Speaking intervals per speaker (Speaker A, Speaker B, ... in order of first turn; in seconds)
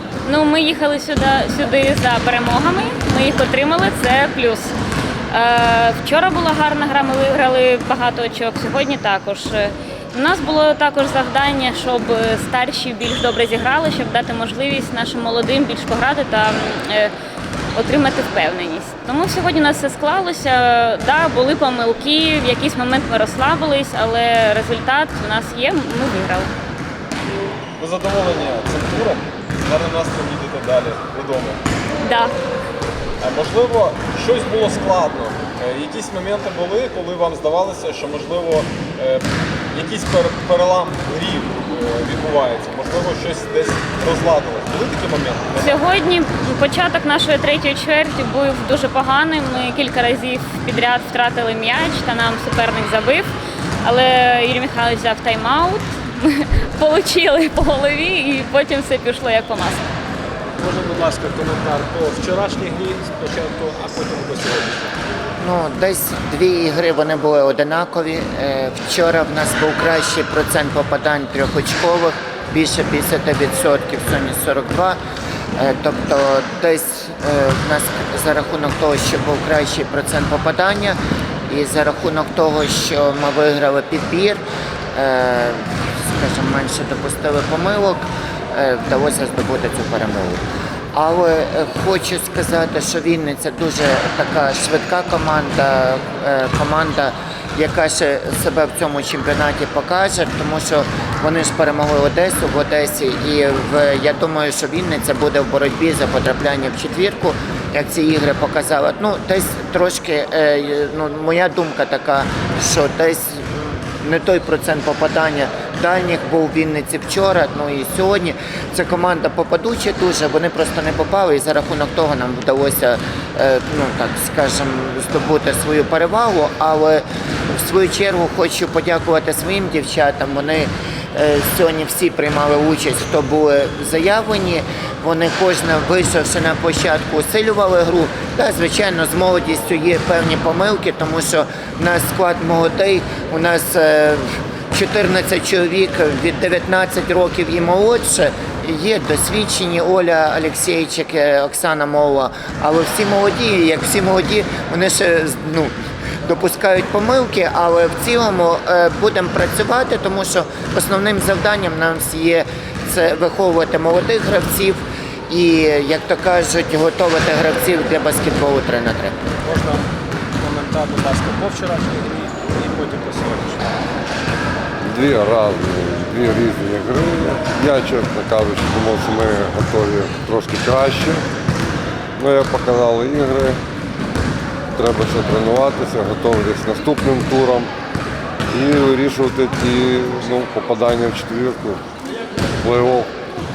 Speaker A: 0.2-4.7, 5.3-17.1, 17.8-26.5, 32.0-32.3, 45.6-53.3, 53.8-59.8
Speaker B: 27.8-31.6, 33.2-45.8
Speaker C: 60.6-65.0, 169.4-169.8, 170.4-173.7
Speaker D: 65.4-75.0, 75.6-81.0, 81.5-84.4, 85.0-155.7, 156.2-169.1
Speaker E: 174.8-181.2, 182.2-183.6, 184.8-187.7, 188.5-191.8, 192.6-193.1